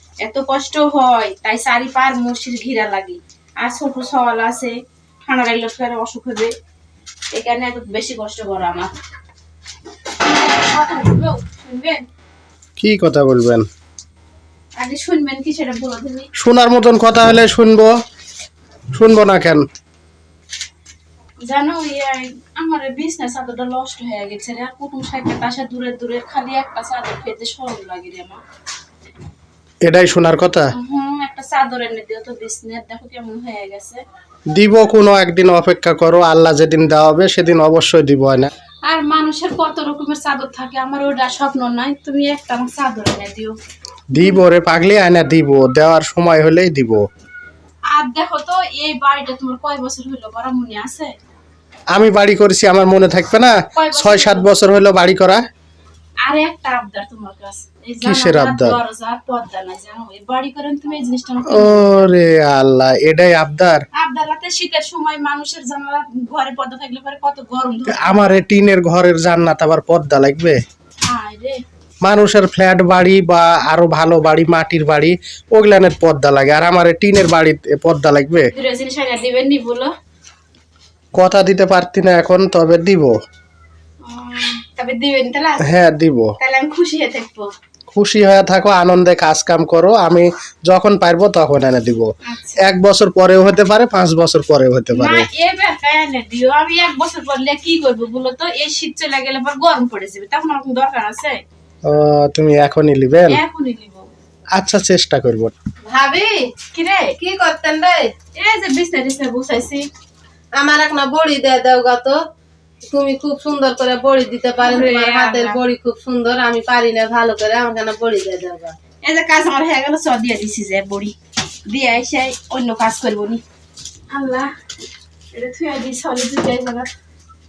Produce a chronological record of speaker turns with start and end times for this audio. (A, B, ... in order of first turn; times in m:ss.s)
0:00.2-0:06.5 A
0:07.3-0:08.9 A
0:10.2-0:12.0 A
0:12.8-0:13.7 B
0:14.8-0:16.3 A
0:16.4-0:17.9 B
0:18.9-0:19.6 B
0:21.4-0:28.4 A
0:29.8-0:30.7 B
0:30.7-0:34.0 A
0:34.5-0:38.5 B
0:38.8-0:43.6 A
0:44.1-0:47.0 B
0:47.9-0:51.2 A
0:51.9-0:55.4 B
0:53.7-0:54.5 A
0:56.2-1:01.8 A
0:58.0-0:58.8 B
1:01.5-1:03.8 B
1:03.9-1:08.2 A
1:07.9-1:10.6 B
1:11.0-1:11.6 A
1:12.0-1:18.5 B
1:18.5-1:19.9 A
1:21.2-1:23.1 B
1:24.0-1:25.7 A
1:25.6-1:26.3 B
1:26.4-1:27.5 A
1:27.9-1:32.1 B
1:32.2-1:32.6 A
1:32.6-1:35.3 B
1:34.9-1:41.4 A
1:41.8-1:43.4 B
1:43.3-1:44.1 A
1:44.6-1:45.5 B
1:45.9-1:46.5 C
1:46.7-1:47.2 A
1:47.2-1:48.1 C
1:48.4-1:49.9 A
1:50.6-1:52.2 C
1:52.9-1:58.8 C
1:54.6-1:55.6 A
1:59.0-2:01.2 A
2:01.7-2:03.4 A
2:04.1-2:04.5 A
2:05.3-2:06.9 A